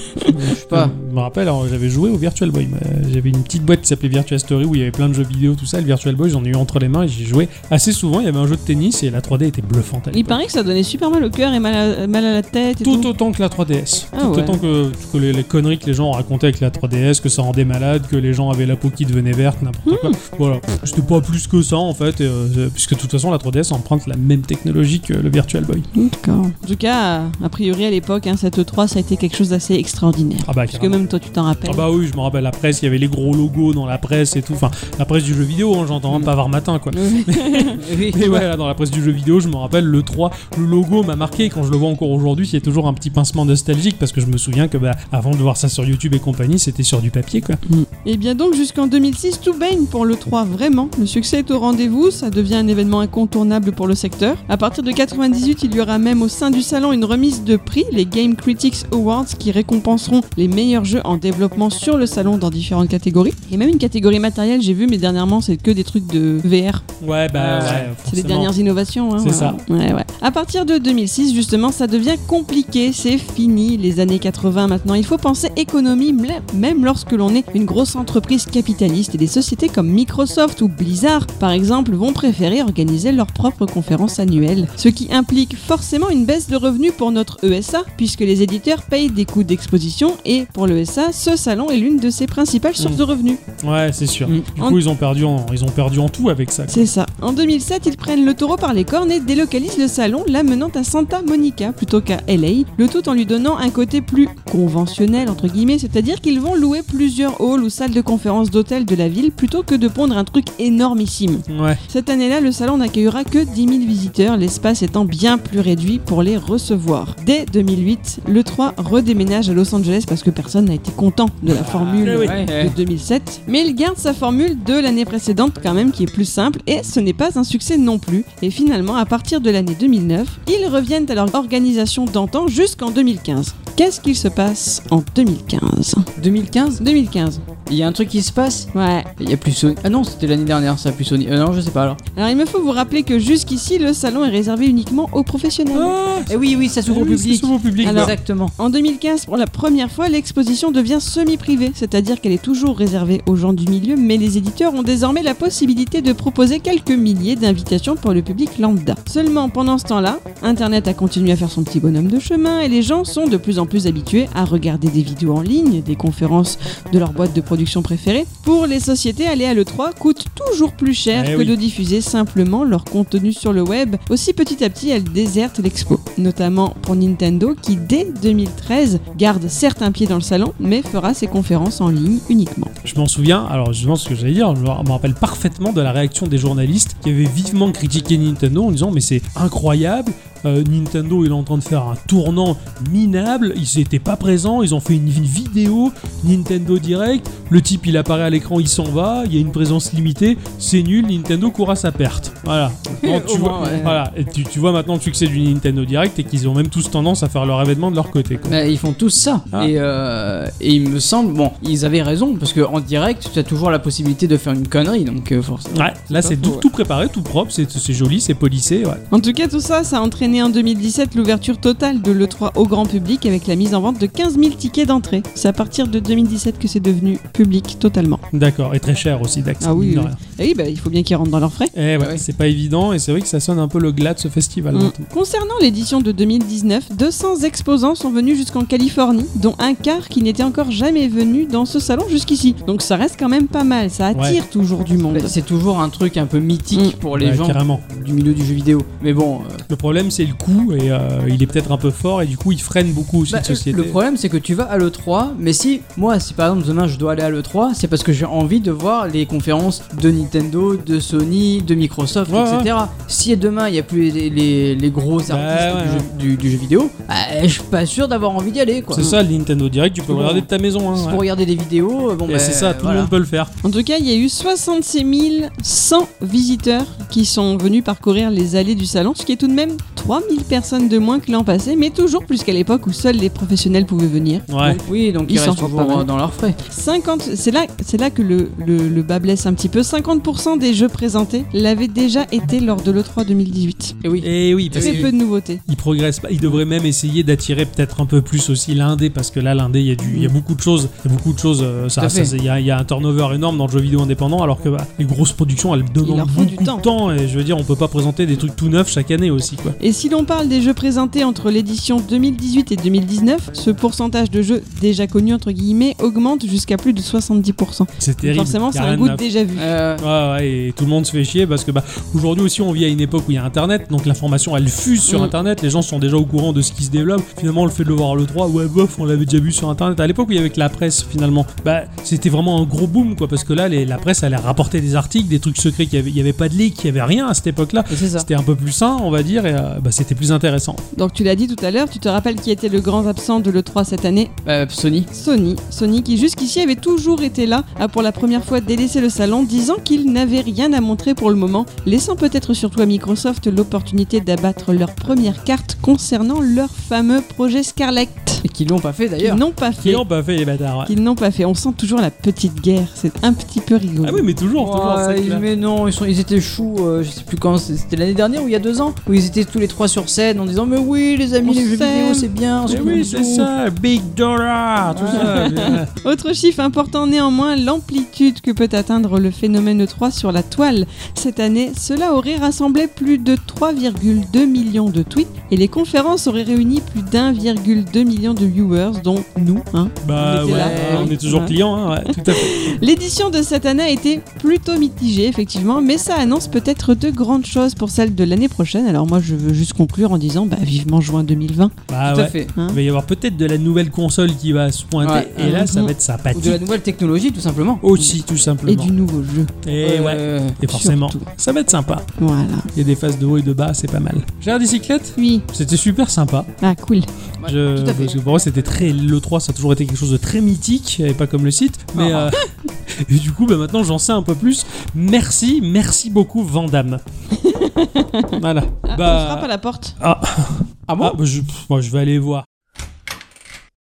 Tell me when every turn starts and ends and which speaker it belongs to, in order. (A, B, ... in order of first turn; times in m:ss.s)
0:00.3-0:01.0 A
0:00.3-0:10.4 B
0:10.1-0:13.1 C
0:12.8-0:25.9 B
0:14.1-0:14.6 C
0:19.8-0:20.2 C
0:25.9-0:31.8 C
0:30.5-0:31.0 B
0:31.6-0:47.6 B
0:36.9-0:37.8 C
0:37.8-0:38.5 A
0:47.7-1:06.8 C
1:07.0-1:08.5 B
1:07.4-1:07.9 A
1:08.0-1:33.4 C
1:09.2-1:09.6 B
1:33.6-1:36.9 B
1:36.7-2:16.1 C
1:51.5-1:51.8 B
2:01.6-2:02.8 A
2:01.6-2:02.4 B
2:16.2-2:16.8 A
2:16.8-2:17.4 C
2:17.7-2:22.0 A
2:18.7-2:19.1 C
2:22.2-2:25.9 C
2:25.7-2:28.2 B
2:26.3-2:28.5 A
2:27.8-3:02.7 C
2:51.1-2:51.6 B
3:02.8-3:28.6 B
3:23.0-3:24.0 A
3:28.5-3:35.9 A
3:35.7-3:39.0 B
3:36.1-3:36.6 C
3:39.1-3:48.2 C
3:48.3-3:50.2 B
3:49.6-3:51.7 C
3:51.8-3:55.0 B
3:54.7-4:05.4 C
4:04.1-4:04.4 B
4:05.1-4:09.6 A
4:07.1-4:07.8 B
4:09.7-4:14.0 B
4:13.3-4:29.1 A
4:22.3-4:22.7 B
4:25.3-4:26.1 B
4:28.9-4:31.2 B
4:30.1-4:33.1 A
4:32.3-4:33.5 B
4:33.6-4:44.5 C
4:44.5-4:44.8 B
4:44.6-4:46.6 A
4:45.3-4:46.1 C
4:46.7-4:54.0 C
4:54.0-4:55.1 A
4:54.2-4:55.2 B
4:54.8-4:55.6 C
4:55.7-5:09.8 B
5:02.0-5:02.3 A
5:06.0-5:06.9 C
5:09.8-5:19.7 C
5:18.0-5:19.2 B
5:19.6-5:20.0 A
5:20.0-5:40.8 B
5:25.1-5:25.3 C
5:37.9-5:38.3 A
5:40.9-5:44.3 C
5:44.4-5:45.1 A
5:45.1-5:58.4 C
5:58.4-5:59.4 A
5:59.2-6:00.0 C
5:59.8-6:01.0 B
6:00.9-6:04.3 C
6:04.0-6:05.4 B
6:04.6-6:13.5 A
6:11.4-6:12.3 C
6:12.7-6:15.9 B
6:14.9-6:15.6 A
6:15.2-6:41.8 C
6:30.0-6:32.8 B
6:30.5-6:31.2 A
6:41.9-6:46.6 B
6:42.1-6:42.5 A
6:45.0-6:45.6 A
6:45.4-6:45.9 C
6:46.3-6:47.8 A
6:47.8-6:48.9 B
6:48.7-6:49.5 C
6:49.6-6:52.1 B
6:49.8-6:50.6 A
6:50.7-6:51.3 C
6:52.2-6:52.7 C
6:52.8-6:56.5 B
6:55.2-6:55.4 C
6:56.6-6:57.1 C
6:57.4-6:58.2 A
6:57.5-7:02.4 B
7:02.0-7:02.4 A
7:03.0-7:07.0 B
7:07.4-7:10.0 C
7:08.4-7:09.5 B
7:10.0-7:12.4 B
7:10.9-7:11.2 A